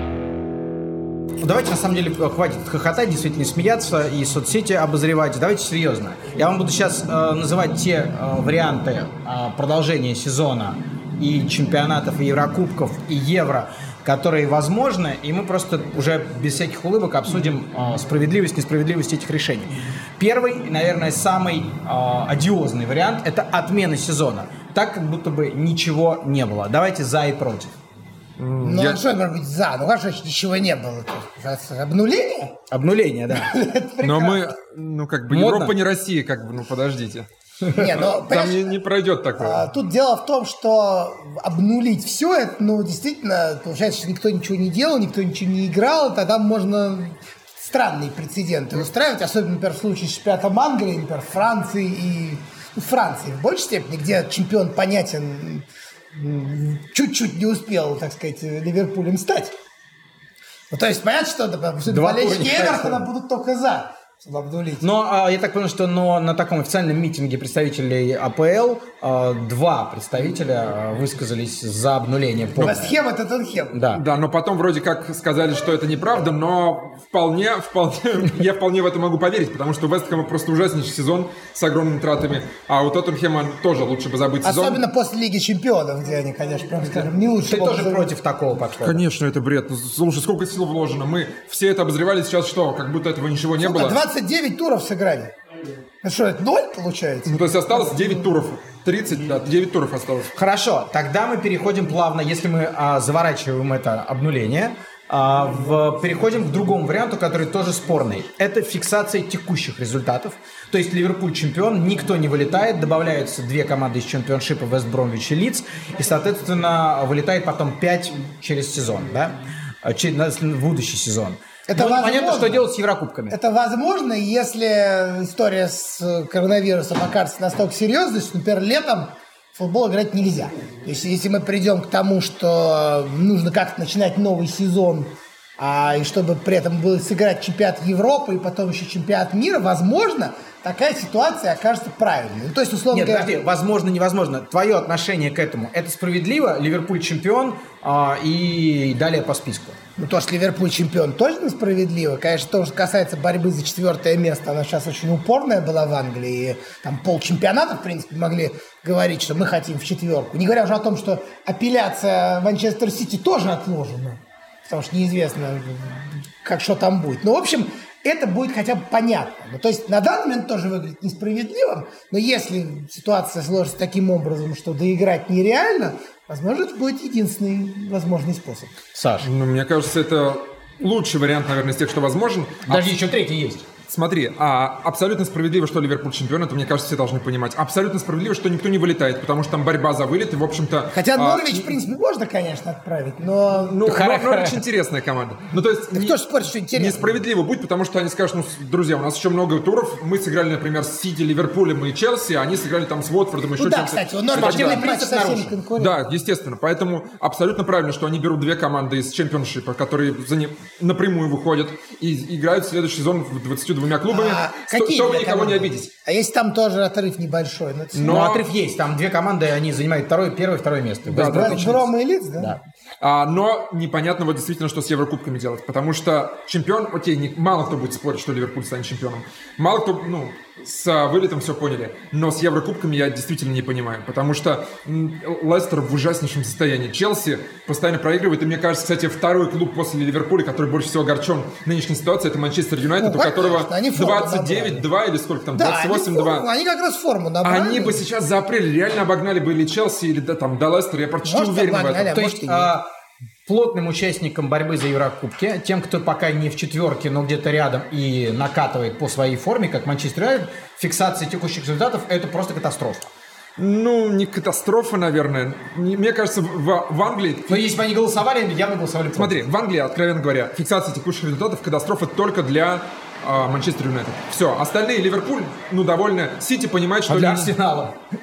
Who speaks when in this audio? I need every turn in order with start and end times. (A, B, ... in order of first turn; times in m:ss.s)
0:01.4-0:27.8 A
0:28.4-0:29.0 B
0:28.6-0:32.6 C
0:32.7-0:33.5 A
0:33.3-0:34.5 C
0:34.0-0:37.3 B
0:35.3-0:35.8 A
0:37.7-0:38.8 C
0:37.8-0:39.7 B
0:39.4-0:59.5 C
1:00.7-1:04.9 C
1:01.9-1:03.0 A
1:04.8-1:13.0 A
1:12.6-1:13.8 C
1:12.6-1:12.9 B
1:13.7-1:14.0 A
1:14.0-1:24.8 B
1:24.4-1:28.1 C
1:27.4-1:29.0 A
1:28.8-1:34.0 B
1:33.6-1:35.3 C
1:36.0-1:38.3 C
1:37.3-1:40.3 B
1:40.3-2:03.4 A
2:01.7-2:02.7 C
2:03.3-2:23.3 C
2:22.9-2:29.8 A
2:30.0-2:58.8 C
2:58.9-2:59.3 A
2:59.2-3:03.0 B
3:02.7-3:03.6 A
3:03.9-3:11.7 B
3:10.9-3:14.0 C
3:13.6-3:16.2 B
3:13.8-3:14.6 A
3:15.9-3:17.2 C
3:16.7-3:24.8 B
3:23.6-3:26.0 C
3:24.3-3:25.6 A
3:25.8-3:35.9 B
3:34.1-3:38.4 C
3:37.9-3:38.4 B
3:38.0-3:41.7 A
3:41.1-3:41.9 B
3:41.2-3:42.6 C
3:43.0-4:06.5 B
4:03.0-4:04.9 C
4:05.6-4:08.0 C
4:07.4-4:12.2 B
4:11.2-4:12.7 C
4:12.1-4:12.9 A
4:13.5-4:23.1 A
4:23.6-4:27.8 B
4:27.5-4:29.4 A
4:29.2-4:37.5 B
4:37.1-4:38.0 A